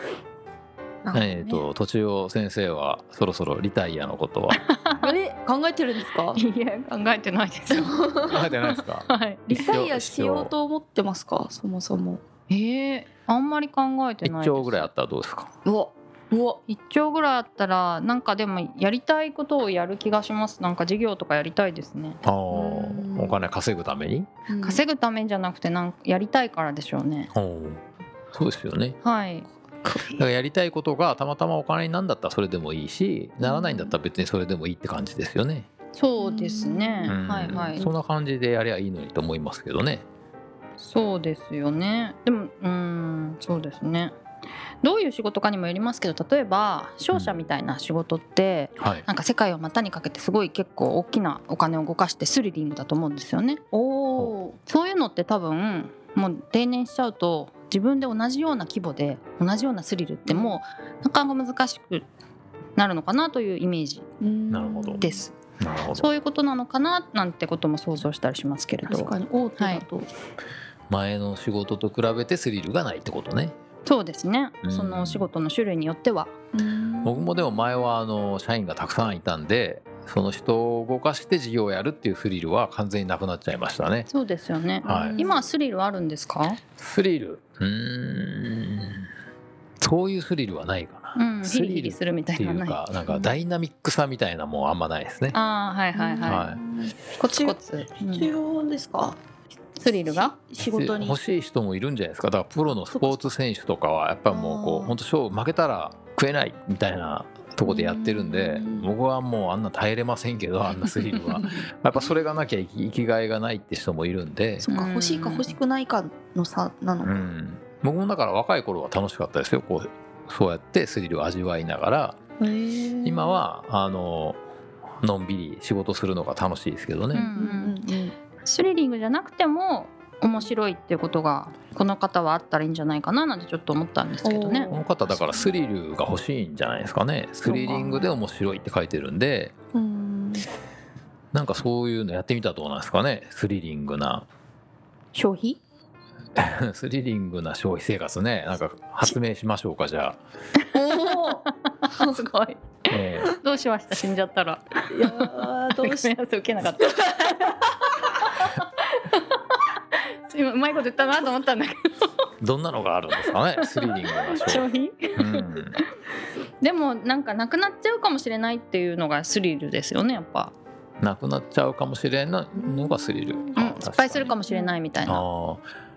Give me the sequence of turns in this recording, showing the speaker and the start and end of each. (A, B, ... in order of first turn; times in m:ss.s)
0:01.0-0:01.6 A
0:01.1-0:04.6 B
0:04.5-0:05.1 C
0:05.0-0:06.4 A
0:06.3-0:07.9 C
0:07.7-0:08.5 A
0:08.2-0:10.5 B
0:08.4-0:09.6 C
0:09.5-0:12.2 A
0:12.5-0:14.9 C
0:14.2-0:15.5 B
0:15.6-0:16.6 A
0:16.7-0:22.2 C
0:22.2-0:24.3 B
0:22.5-0:23.4 A
0:24.5-0:24.8 A
0:24.6-0:27.3 C
0:27.3-0:27.8 B
0:28.3-0:29.0 B
0:29.0-0:29.5 C
0:29.8-0:30.3 A
0:30.2-0:35.7 B
0:33.4-0:34.0 A
0:35.9-0:37.8 C
0:36.2-0:37.9 A
0:37.0-0:40.0 B
0:40.8-0:44.1 C
0:44.8-0:53.6 C
0:48.8-0:49.0 B
0:53.7-0:54.6 A
0:54.7-1:02.0 C
1:00.3-1:00.6 A
1:02.8-1:04.0 C
1:04.2-1:05.2 A
1:04.5-1:05.0 B
1:05.0-1:05.3 C
1:05.6-1:06.1 B
1:05.9-1:09.8 C
1:08.8-1:10.1 A
1:10.9-1:13.5 B
1:13.8-1:16.3 C
1:14.6-1:15.3 B
1:16.5-1:17.3 A
1:17.0-1:24.1 B
1:24.1-1:26.6 C
1:24.8-1:25.5 A
1:24.8-1:25.2 B
1:26.8-1:29.0 B
1:29.8-1:35.4 B
1:31.1-1:32.8 C
1:33.1-1:33.4 A
1:35.3-1:36.5 C
1:35.9-1:39.2 A
1:36.2-1:36.6 B
1:37.2-1:38.3 C
1:39.8-1:40.3 C
1:39.8-1:41.2 A
1:40.6-1:54.7 B
1:42.9-1:43.3 A
1:44.3-1:45.0 A
1:47.6-1:48.9 A
1:51.2-1:51.6 A
1:54.6-1:57.3 A
1:54.7-1:55.6 C
1:57.0-2:02.2 B
2:02.4-2:03.3 A
2:03.0-2:04.4 B
2:05.0-2:07.3 B
2:07.1-2:08.1 A
2:07.1-2:07.8 C
2:08.4-2:14.7 C
2:14.2-2:15.5 A
2:14.7-2:19.5 B
2:17.4-2:18.1 A
2:19.7-2:20.5 A
2:21.3-2:24.3 B
2:25.1-2:25.6 A
2:26.4-2:30.2 B
2:30.7-2:31.4 A
2:31.1-2:32.6 C
2:32.9-2:33.3 B
2:33.2-2:41.8 C
2:34.9-2:36.1 A
2:42.4-2:45.8 B
2:43.3-2:45.8 C
2:46.6-2:50.5 C
2:51.0-2:54.3 B
2:52.5-2:53.7 A
2:53.5-2:55.2 C
2:54.2-2:54.8 A
2:55.0-2:55.6 B